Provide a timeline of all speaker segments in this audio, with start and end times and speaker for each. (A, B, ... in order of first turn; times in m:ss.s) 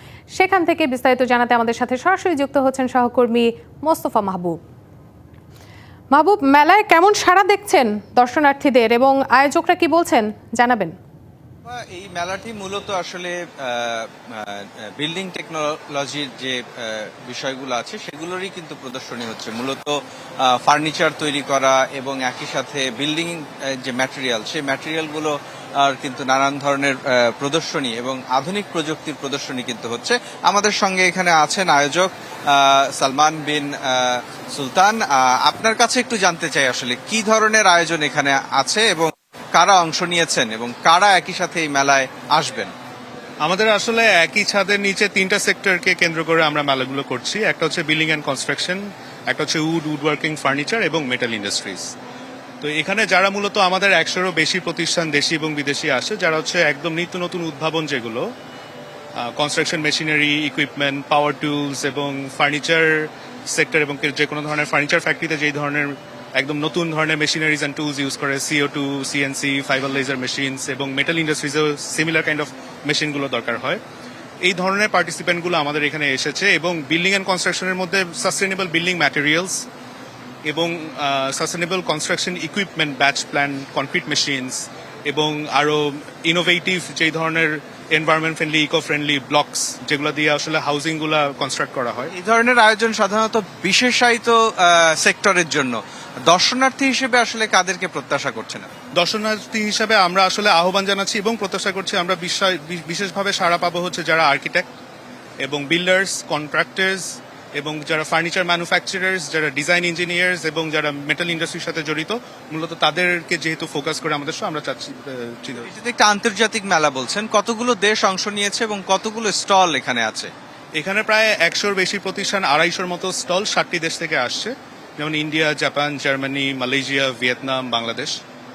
0:00.3-0:04.6 A
0:06.1-0:10.9 A
0:11.7-0:42.7 B
0:43.4-0:51.8 C
0:52.6-0:58.2 C
0:59.2-1:13.8 C
1:14.4-1:19.6 C
1:20.5-1:32.1 C
1:32.1-1:38.7 B
1:39.0-1:44.6 C
1:45.4-1:55.7 C
1:55.6-2:00.3 B
2:00.8-2:08.1 C